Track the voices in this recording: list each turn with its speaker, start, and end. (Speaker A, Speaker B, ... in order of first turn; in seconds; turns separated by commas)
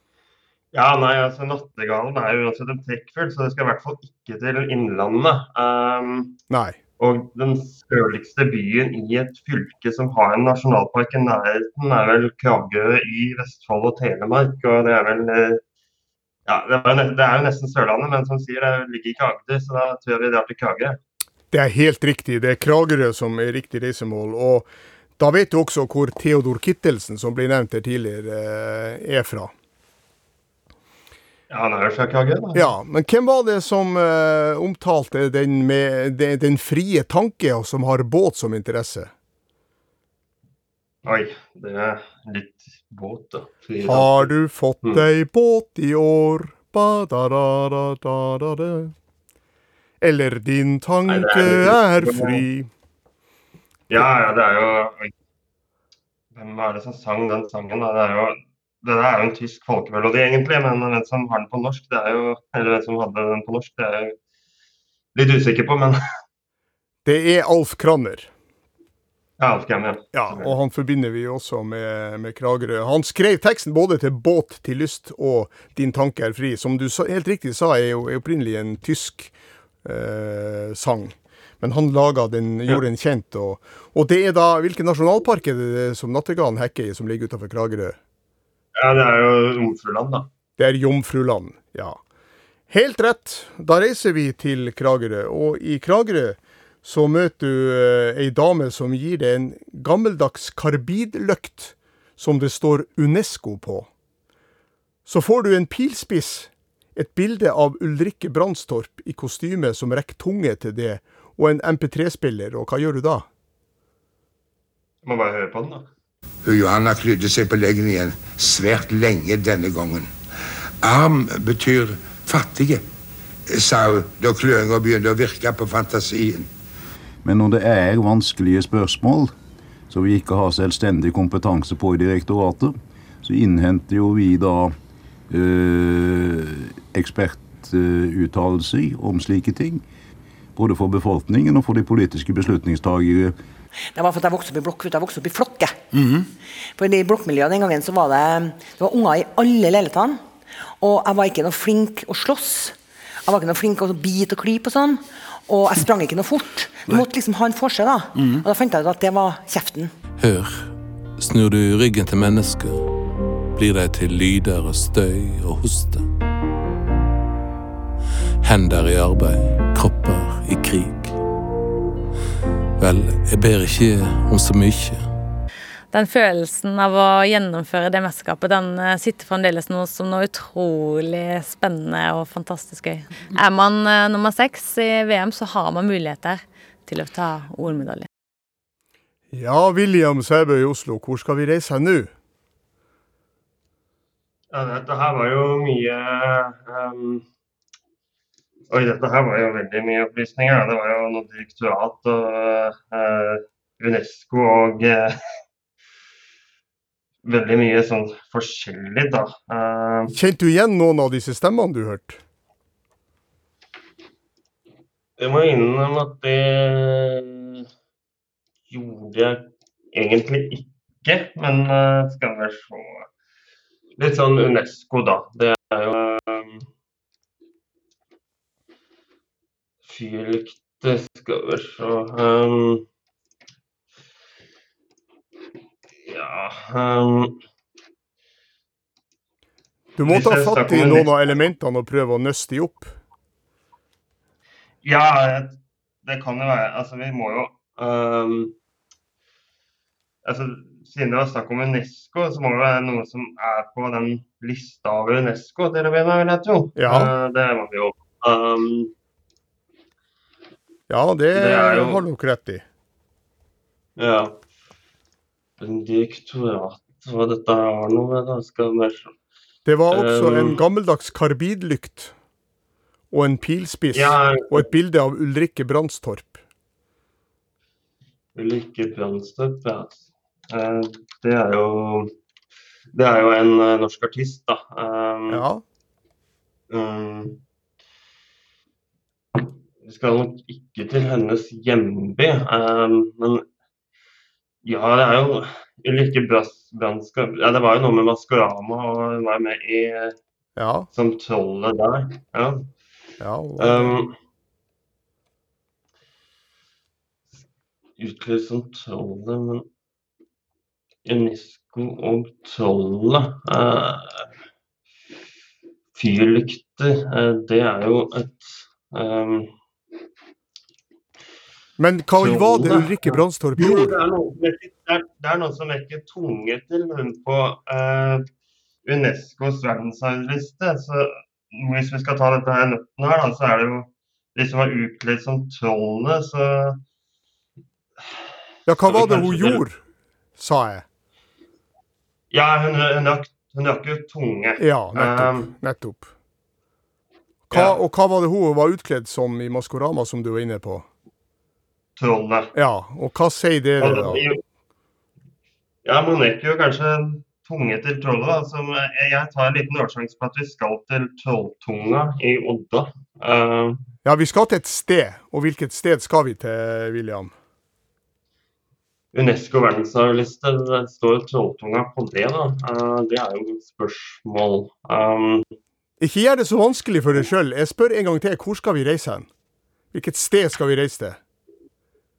Speaker A: 0.7-6.4, Speaker B: 6.5-6.8, Speaker A: 7.0-15.6, Speaker A: 16.5-21.0, Speaker B: 21.5-29.5, Speaker A: 31.5-32.7, Speaker B: 32.5-39.1, Speaker A: 41.0-44.3, Speaker B: 43.8-48.9, Speaker B: 50.0-52.7, Speaker A: 51.1-52.4, Speaker A: 53.9-55.1, Speaker A: 56.3-64.2, Speaker A: 65.1-66.0, Speaker B: 67.0-68.3, Speaker A: 69.4-70.5, Speaker B: 70.1-79.3, Speaker B: 79.8-88.0, Speaker A: 88.8-90.3, Speaker B: 90.6-92.0, Speaker B: 92.7-103.9, Speaker B: 105.0-113.3, Speaker A: 115.0-115.9, Speaker C: 116.4-120.1, Speaker C: 120.8-122.8, Speaker C: 123.5-126.5, Speaker D: 127.2-129.3, Speaker D: 129.9-134.8, Speaker D: 135.3-139.8, Speaker D: 140.6-143.4, Speaker E: 143.9-145.8, Speaker E: 146.8-150.2, Speaker E: 150.8-152.7, Speaker E: 153.2-159.9, Speaker F: 160.2-162.9, Speaker F: 163.5-166.1, Speaker F: 168.4-171.2, Speaker F: 172.8-175.2, Speaker G: 175.9-188.1, Speaker B: 189.3-192.1, Speaker A: 194.5-197.2, Speaker A: 198.7-205.1, Speaker A: 207.2-210.1, Speaker B: 210.1-212.2, Speaker A: 215.2-217.6, Speaker A: 218.7-223.1, Speaker A: 224.0-226.7, Speaker A: 229.8-232.8, Speaker A: 236.0-237.4, Speaker B: 240.0-242.9, Speaker A: 240.0-241.1, Speaker A: 244.8-248.5, Speaker A: 250.2-258.9, Speaker B: 256.8-257.1, Speaker B: 260.9-262.6, Speaker A: 261.3-262.0, Speaker A: 264.0-264.4, Speaker A: 265.6-269.1, Speaker B: 269.6-272.1, Speaker A: 269.9-270.6, Speaker B: 273.1-276.4, Speaker A: 273.9-274.6, Speaker A: 278.3-282.1, Speaker A: 282.9-285.4, Speaker B: 285.3-285.6, Speaker A: 286.7-287.4, Speaker A: 289.4-293.4, Speaker A: 294.6-300.1, Speaker B: 300.6-300.9, Speaker A: 300.9-302.7, Speaker B: 303.2-304.0, Speaker A: 303.6-304.1, Speaker A: 308.0-309.6, Speaker A: 311.0-314.3, Speaker A: 315.9-319.5, Speaker B: 321.8-323.9, Speaker A: 322.1-328.2, Speaker A: 328.8-336.8, Speaker B: 338.6-339.8, Speaker A: 338.8-339.6, Speaker B: 340.4-340.8, Speaker A: 342.3-345.5, Speaker B: 344.6-346.1, Speaker B: 347.5-350.9, Speaker A: 347.5-347.8, Speaker A: 352.0-352.5, Speaker B: 352.5-354.2, Speaker A: 353.8-354.4, Speaker A: 355.8-363.8, Speaker B: 364.0-367.3, Speaker A: 369.1-375.4, Speaker B: 376.0-379.3, Speaker B: 379.9-381.2